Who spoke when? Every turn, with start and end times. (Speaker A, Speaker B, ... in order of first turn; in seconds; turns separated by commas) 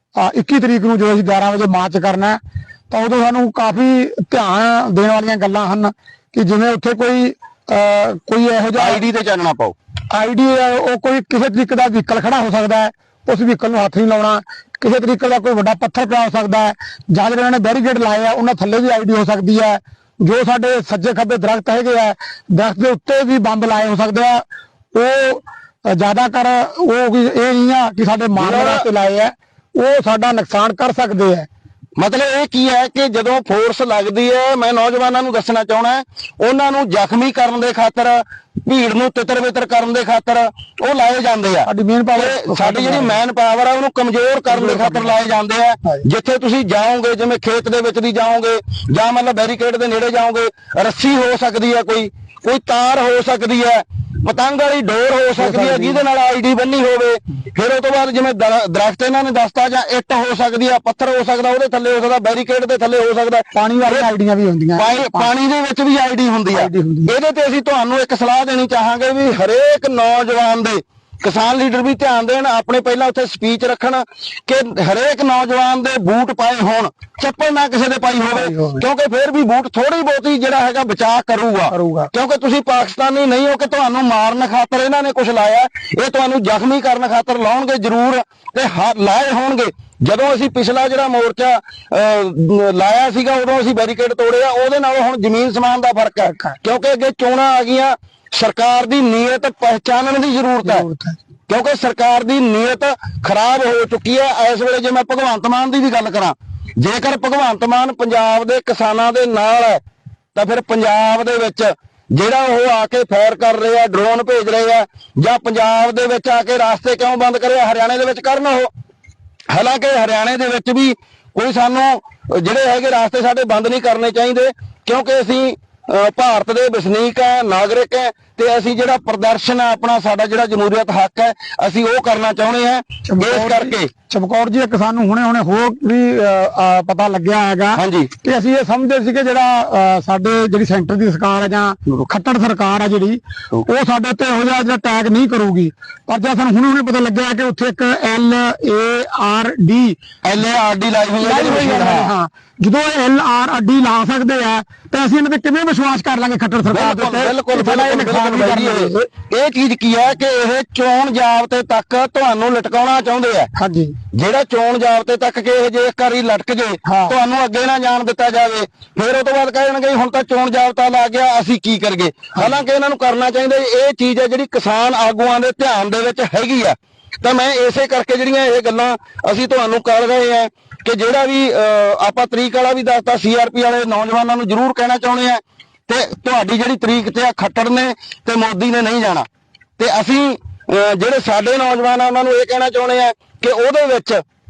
Speaker A: 0.1-9.0, Speaker B: 8.8-9.8, Speaker A: 10.1-31.5, Speaker B: 28.4-28.9, Speaker B: 32.0-64.1, Speaker A: 41.7-43.2, Speaker A: 44.5-45.1, Speaker A: 55.4-56.0, Speaker A: 63.5-65.3, Speaker B: 64.7-100.9, Speaker A: 66.5-67.1, Speaker A: 78.3-78.8, Speaker A: 81.7-82.1, Speaker A: 96.2-96.5, Speaker A: 100.6-101.2, Speaker B: 101.5-109.8, Speaker B: 110.3-118.7, Speaker B: 119.5-133.9, Speaker A: 133.1-150.0, Speaker B: 137.7-138.1, Speaker B: 150.2-152.1, Speaker A: 151.2-159.1, Speaker B: 156.7-163.5, Speaker A: 163.6-163.9, Speaker B: 164.1-189.3, Speaker A: 166.8-167.1, Speaker B: 189.8-194.2